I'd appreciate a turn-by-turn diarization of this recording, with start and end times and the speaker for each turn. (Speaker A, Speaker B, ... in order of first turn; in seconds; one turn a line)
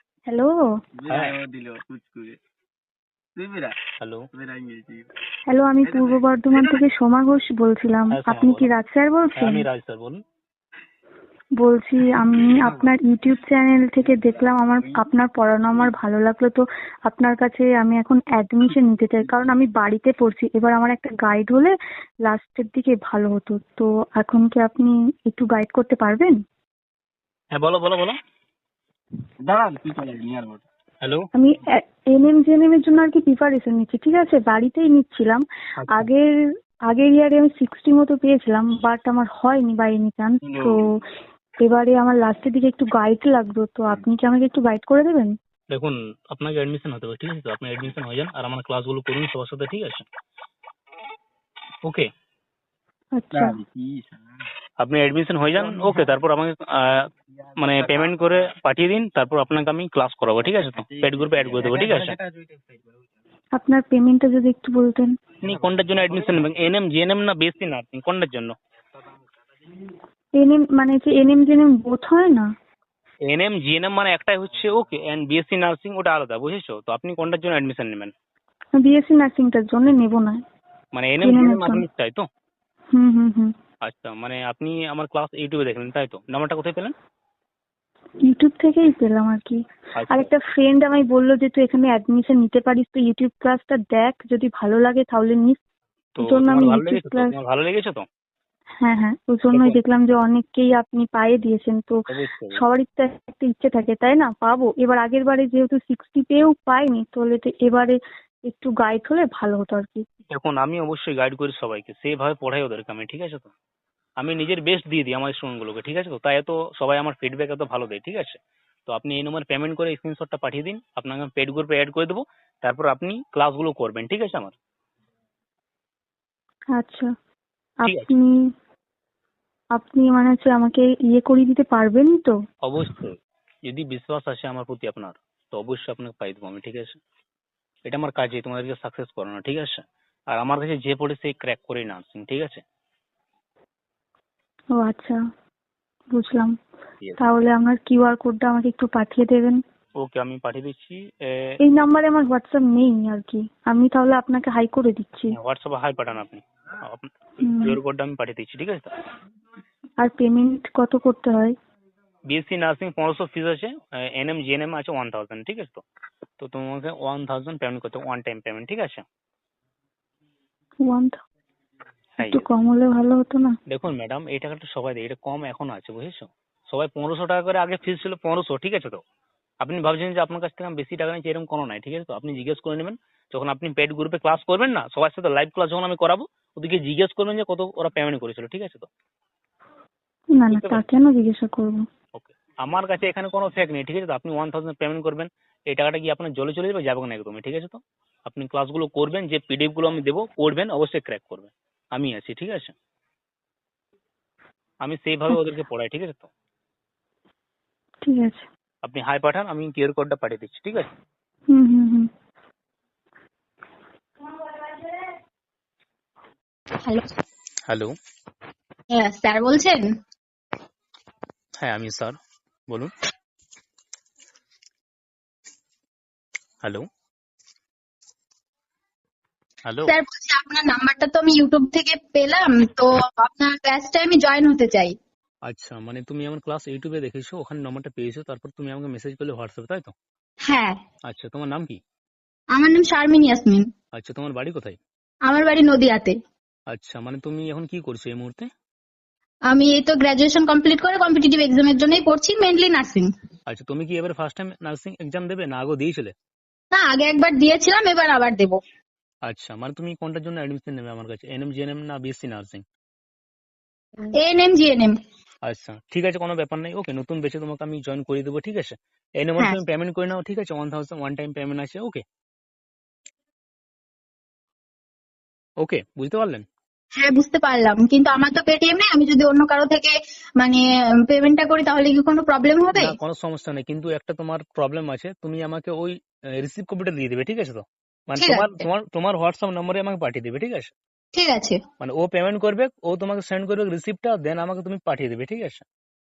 Speaker A: 0.3-0.5
Speaker B: 1.0-2.4
Speaker C: 1.1-1.4
Speaker B: 3.4-3.8
Speaker B: 4.3-5.1
Speaker A: 5.5-9.7
Speaker B: 5.9-6.8
Speaker C: 8.1-8.7
Speaker C: 9.4-10.2
Speaker A: 11.6-26.4
Speaker B: 12.4-12.9
Speaker C: 27.5-28.1
Speaker B: 29.4-30.6
Speaker C: 31.0-31.3
Speaker A: 31.4-36.3
Speaker C: 35.8-36.1
Speaker A: 36.9-41.0
Speaker B: 40.4-40.8
Speaker A: 41.6-45.4
Speaker C: 45.7-50.1
Speaker A: 53.2-53.6
Speaker B: 53.3-54.2
Speaker C: 54.8-57.1
Speaker B: 55.6-56.1
Speaker B: 57.5-58.5
Speaker C: 57.6-62.2
Speaker B: 60.6-62.9
Speaker A: 63.6-65.2
Speaker C: 65.4-68.5
Speaker B: 65.5-66.5
Speaker A: 70.4-72.5
Speaker C: 73.3-78.1
Speaker A: 78.8-80.4
Speaker C: 80.9-82.3
Speaker A: 81.2-81.8
Speaker A: 82.9-83.5
Speaker C: 83.8-86.9
Speaker A: 88.2-89.6
Speaker C: 90.0-90.3
Speaker A: 90.1-95.6
Speaker C: 96.2-98.1
Speaker A: 96.2-97.3
Speaker A: 98.8-102.0
Speaker C: 99.5-99.8
Speaker C: 102.1-102.6
Speaker A: 102.5-110.0
Speaker C: 110.3-113.5
Speaker C: 114.2-124.5
Speaker A: 126.8-127.1
Speaker A: 127.8-128.4
Speaker C: 127.8-128.1
Speaker A: 129.8-132.3
Speaker C: 132.6-137.0
Speaker C: 137.8-142.6
Speaker A: 144.8-145.2
Speaker A: 146.1-146.5
Speaker A: 147.2-149.6
Speaker C: 150.0-151.6
Speaker A: 151.6-155.3
Speaker C: 155.3-158.9
Speaker A: 157.4-157.8
Speaker A: 160.0-161.5
Speaker C: 162.3-165.8
Speaker C: 166.4-169.1
Speaker A: 170.8-171.2
Speaker C: 172.2-172.5
Speaker A: 172.2-173.5
Speaker C: 173.7-179.0
Speaker C: 179.6-188.9
Speaker A: 190.4-191.8
Speaker C: 190.5-190.8
Speaker C: 192.1-202.7
Speaker C: 204.8-206.3
Speaker A: 208.0-208.4
Speaker C: 208.8-210.9
Speaker A: 211.5-212.1
Speaker C: 217.7-217.9
Speaker D: 218.9-219.9
Speaker C: 221.6-222.9
Speaker C: 229.7-229.9
Speaker D: 229.8-234.9
Speaker C: 235.4-239.9
Speaker D: 240.5-240.8
Speaker C: 241.0-241.8
Speaker D: 242.5-243.7
Speaker C: 243.9-244.8
Speaker D: 245.3-246.2
Speaker C: 246.7-248.5
Speaker D: 249.5-253.1
Speaker C: 253.5-256.1
Speaker D: 256.7-258.6
Speaker C: 259.2-262.6
Speaker D: 264.1-264.9
Speaker C: 265.5-272.0
Speaker C: 275.6-276.4
Speaker D: 277.0-283.0
Speaker C: 282.7-290.7
Speaker D: 288.2-288.6
Speaker D: 291.1-291.6
Speaker C: 291.8-295.6